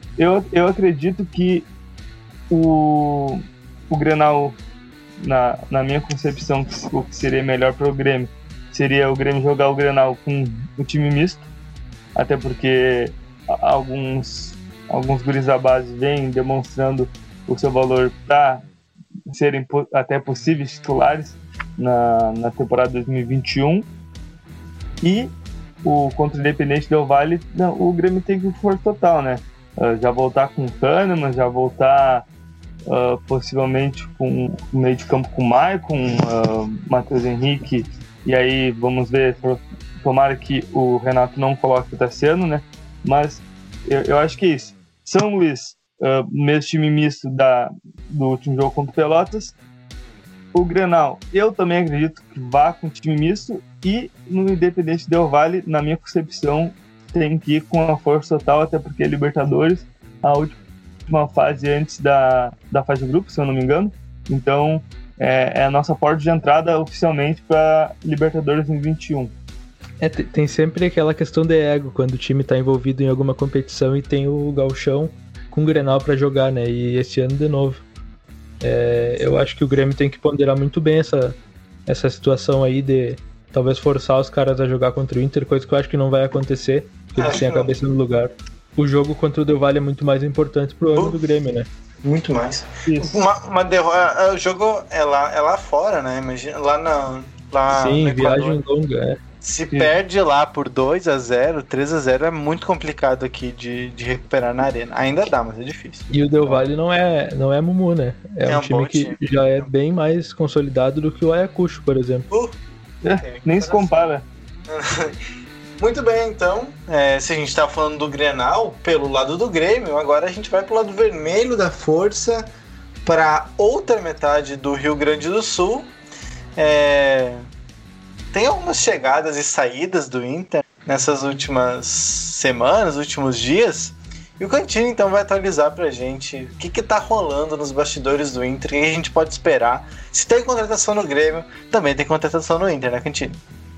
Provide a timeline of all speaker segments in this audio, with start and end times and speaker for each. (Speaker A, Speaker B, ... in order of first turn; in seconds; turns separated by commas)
Speaker A: 0.2-1.6, Speaker A: 2.5-4.6, Speaker A: 5.2-11.4, Speaker A: 12.1-18.6, Speaker A: 19.3-23.9, Speaker A: 25.0-25.3, Speaker A: 25.8-32.2, Speaker A: 32.9-49.5, Speaker A: 50.5-60.5, Speaker A: 61.1-69.3, Speaker B: 70.0-77.8, Speaker B: 78.6-91.7, Speaker C: 87.2-87.7, Speaker C: 90.9-91.2, Speaker C: 92.0-98.6, Speaker A: 92.8-93.2, Speaker B: 97.7-99.2, Speaker C: 99.4-106.7, Speaker B: 106.1-112.3, Speaker C: 108.5-109.7, Speaker C: 112.3-112.6, Speaker A: 113.0-114.2, Speaker C: 113.1-114.0, Speaker C: 114.7-115.1, Speaker C: 115.8-122.5, Speaker C: 123.0-125.9, Speaker C: 126.6-127.4, Speaker C: 128.3-143.4